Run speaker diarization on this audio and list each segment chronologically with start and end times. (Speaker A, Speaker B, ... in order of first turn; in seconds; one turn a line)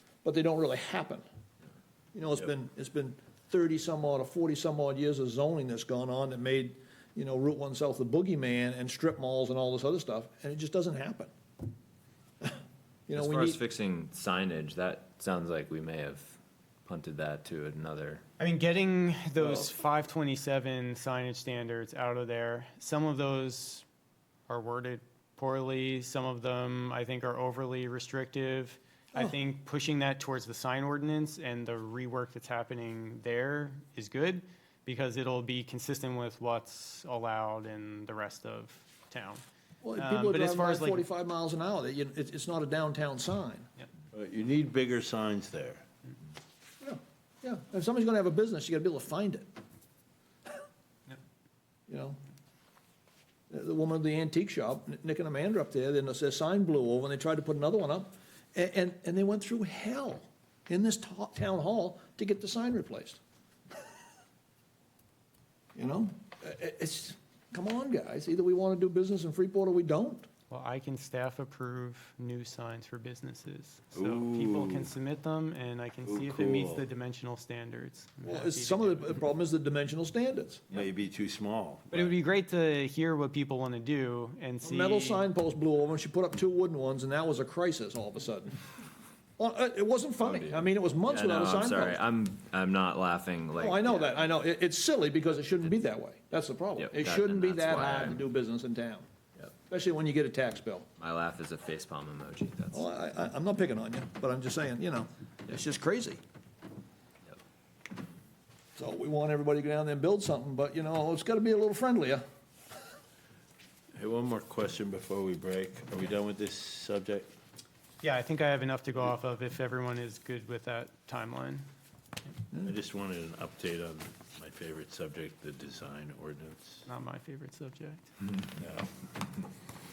Speaker A: 0.2-1.2
Speaker A: 2.1-11.3
Speaker A: 13.1-13.6
Speaker B: 13.1-18.2
Speaker C: 18.4-23.9
Speaker B: 19.4-19.7
Speaker C: 24.5-39.4
Speaker A: 39.8-43.7
Speaker C: 40.0-41.1
Speaker D: 44.1-45.8
Speaker A: 46.8-49.5
Speaker A: 51.9-52.2
Speaker A: 53.5-63.2
Speaker A: 65.8-70.3
Speaker C: 70.5-79.2
Speaker D: 74.0-74.9
Speaker D: 76.1-76.8
Speaker A: 78.2-80.7
Speaker D: 80.7-82.1
Speaker C: 81.9-85.3
Speaker A: 84.6-88.5
Speaker A: 89.4-92.0
Speaker B: 90.2-94.2
Speaker A: 93.6-99.1
Speaker B: 96.8-98.2
Speaker A: 99.7-100.9
Speaker B: 101.0-102.9
Speaker A: 102.7-106.2
Speaker A: 108.8-112.2
Speaker D: 113.9-117.3
Speaker C: 118.0-121.7
Speaker D: 122.6-126.9
Speaker C: 126.9-128.1
Speaker D: 128.5-128.9